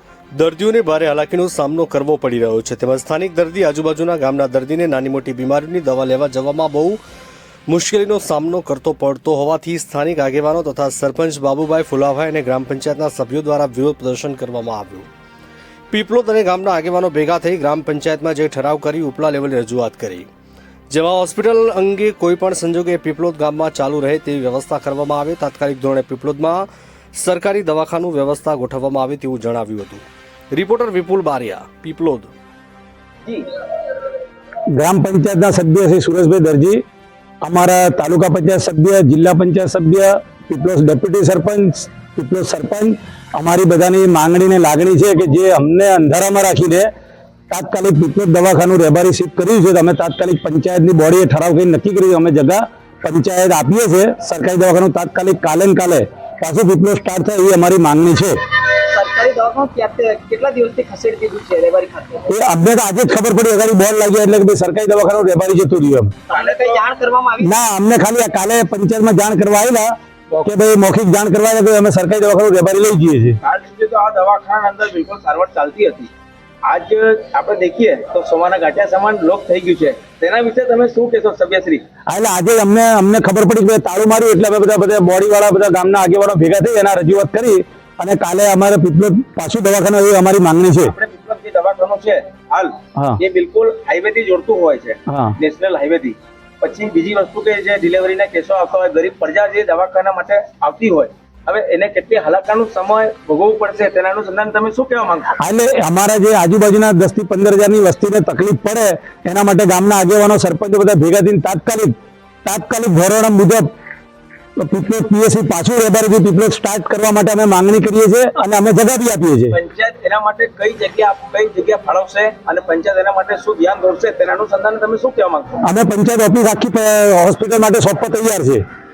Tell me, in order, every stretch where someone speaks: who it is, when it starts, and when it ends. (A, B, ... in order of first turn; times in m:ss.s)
0:00.3-0:07.0 A
0:07.7-0:15.1 A
0:15.9-0:20.3 A
0:20.9-0:32.3 A
0:34.7-0:36.8 B
0:37.4-0:46.9 B
0:47.5-0:58.4 B
0:58.7-1:02.3 C
1:02.3-1:06.1 B
1:06.3-1:07.5 C
1:06.3-1:06.8 D
1:07.4-1:09.9 B
1:10.4-1:13.4 B
1:13.4-1:16.1 D
1:16.6-1:21.8 D
1:22.1-1:30.9 B
1:30.8-1:45.4 D
1:35.1-1:35.3 B
1:45.4-1:51.9 B
1:52.4-1:53.7 B
1:54.6-1:59.6 B
1:59.5-2:05.6 D
2:05.6-2:08.6 B